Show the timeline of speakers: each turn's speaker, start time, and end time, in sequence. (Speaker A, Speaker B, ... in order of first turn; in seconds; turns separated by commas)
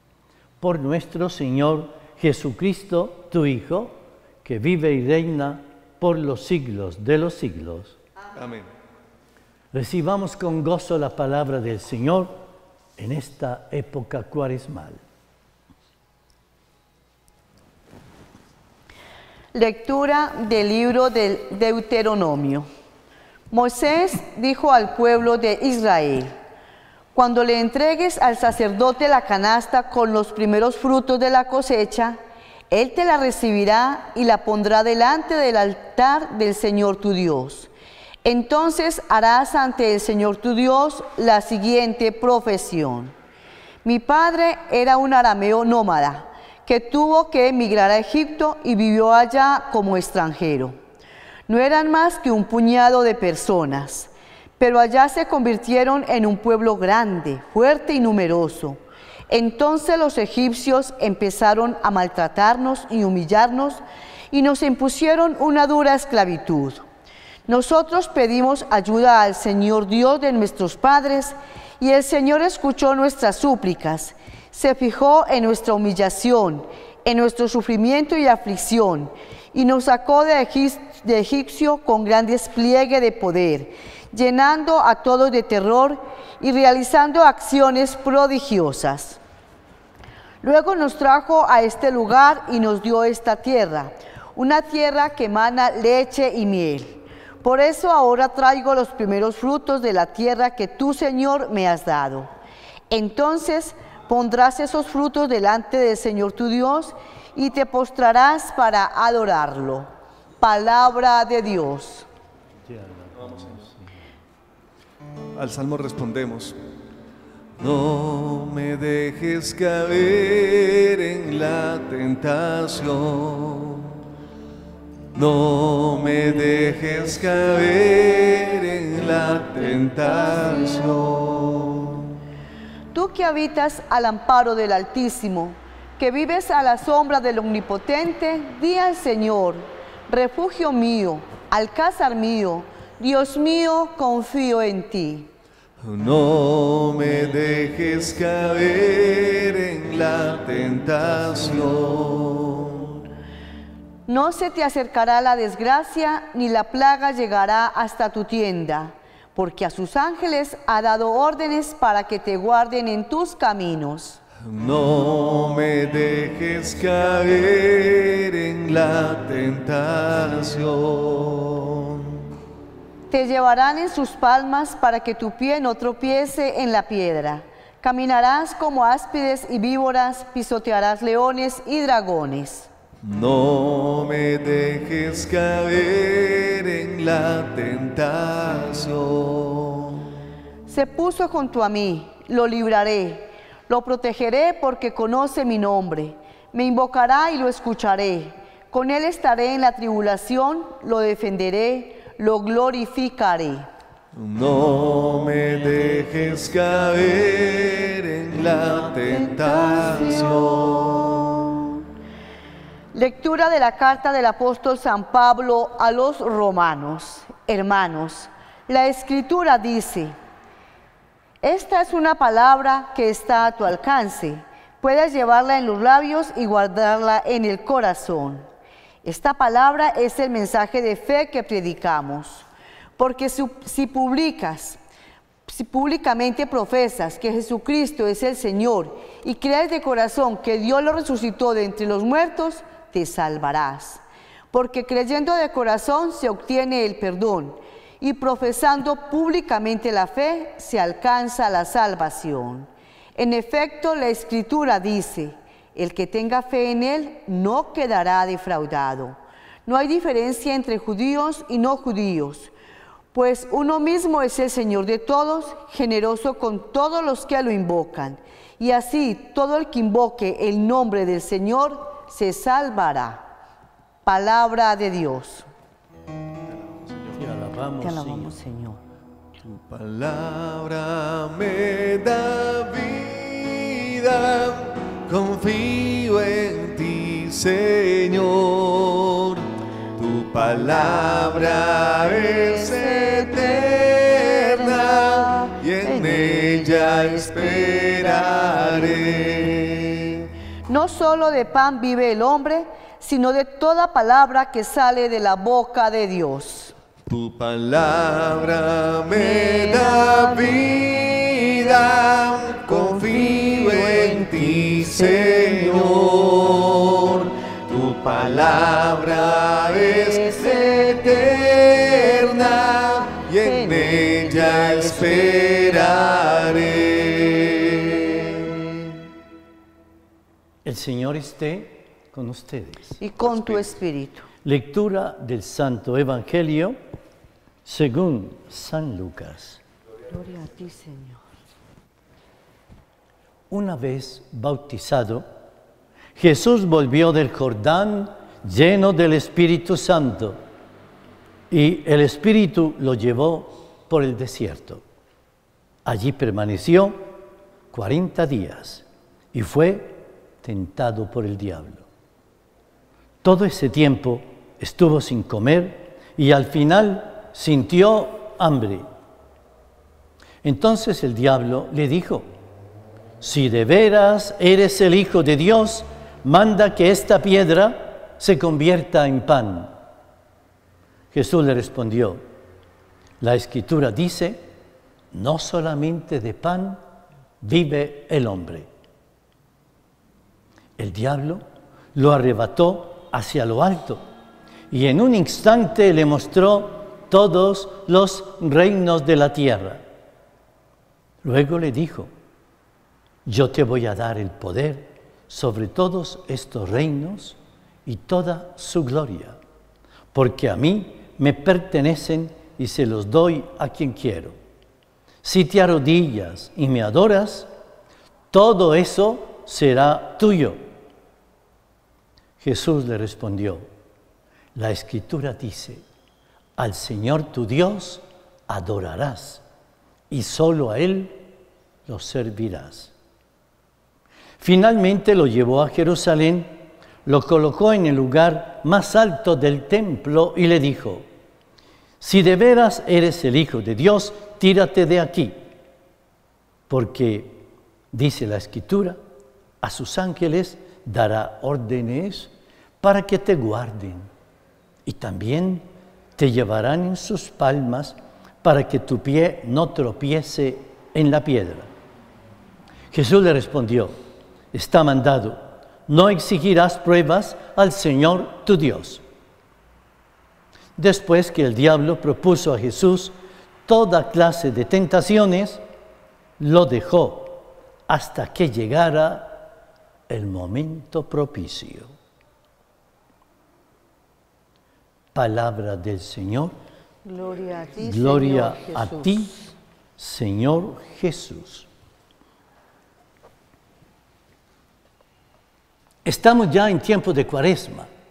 Speaker A: 0.6-8.0, Speaker B: 8.3-8.7, Speaker A: 9.7-12.4, Speaker A: 13.0-15.0, Speaker C: 19.5-22.7, Speaker C: 23.5-26.3, Speaker C: 27.1-32.2, Speaker C: 32.7-37.7, Speaker C: 38.2-43.1, Speaker C: 43.8-50.8, Speaker C: 51.5-66.8, Speaker C: 67.5-89.2, Speaker C: 90.4-102.3, Speaker C: 102.9-109.9, Speaker C: 110.4-112.1, Speaker A: 112.7-113.9, Speaker B: 115.4-116.6, Speaker B: 117.6-124.0, Speaker B: 125.1-132.1, Speaker C: 132.9-145.3, Speaker B: 145.8-153.0, Speaker C: 154.1-164.2, Speaker B: 164.4-172.2, Speaker C: 173.1-182.7, Speaker B: 183.0-190.1, Speaker C: 190.7-203.7, Speaker B: 204.2-211.5, Speaker C: 212.9-220.2, Speaker C: 221.4-228.5, Speaker C: 229.0-232.5, Speaker C: 233.0-234.8, Speaker C: 235.5-262.5, Speaker C: 263.1-273.2, Speaker C: 274.1-275.5, Speaker B: 276.6-277.1, Speaker A: 277.1-278.3, Speaker C: 277.8-278.8, Speaker B: 279.4-289.4, Speaker B: 290.0-300.2, Speaker C: 292.9-293.1, Speaker C: 294.9-298.6, Speaker C: 300.7-306.7, Speaker B: 307.1-328.5, Speaker C: 309.5-310.2, Speaker C: 313.4-313.8, Speaker C: 323.5-324.2, Speaker A: 330.6-333.0, Speaker C: 333.0-334.3, Speaker A: 334.4-336.8, Speaker A: 337.6-339.6, Speaker C: 340.1-341.2, Speaker A: 343.5-345.3, Speaker A: 346.2-350.4, Speaker A: 351.5-354.8, Speaker A: 355.9-357.1, Speaker A: 357.7-361.9, Speaker A: 363.2-368.9, Speaker A: 370.4-372.2, Speaker A: 373.2-379.7, Speaker A: 381.1-382.2, Speaker A: 383.2-384.4, Speaker A: 385.1-386.8, Speaker A: 387.4-388.7, Speaker A: 390.8-391.4, Speaker A: 391.9-394.0, Speaker A: 394.7-399.8, Speaker A: 401.2-402.1, Speaker A: 403.3-409.4, Speaker A: 410.1-414.4, Speaker A: 415.2-417.5, Speaker A: 418.3-420.6, Speaker A: 422.4-423.6, Speaker A: 424.6-425.8, Speaker A: 426.6-429.4, Speaker A: 430.1-431.2, Speaker A: 431.9-432.9, Speaker A: 434.4-436.5, Speaker A: 437.1-441.1, Speaker A: 442.0-445.4, Speaker A: 446.7-447.4, Speaker A: 447.9-449.0, Speaker A: 449.6-454.1, Speaker A: 454.9-455.6, Speaker A: 456.2-461.7, Speaker A: 462.9-463.9, Speaker A: 464.5-469.0, Speaker A: 470.8-475.6, Speaker A: 476.4-479.5, Speaker A: 480.1-481.9, Speaker A: 485.1-486.5, Speaker C: 487.0-489.4, Speaker A: 487.8-489.4, Speaker A: 490.0-491.7, Speaker A: 496.1-497.9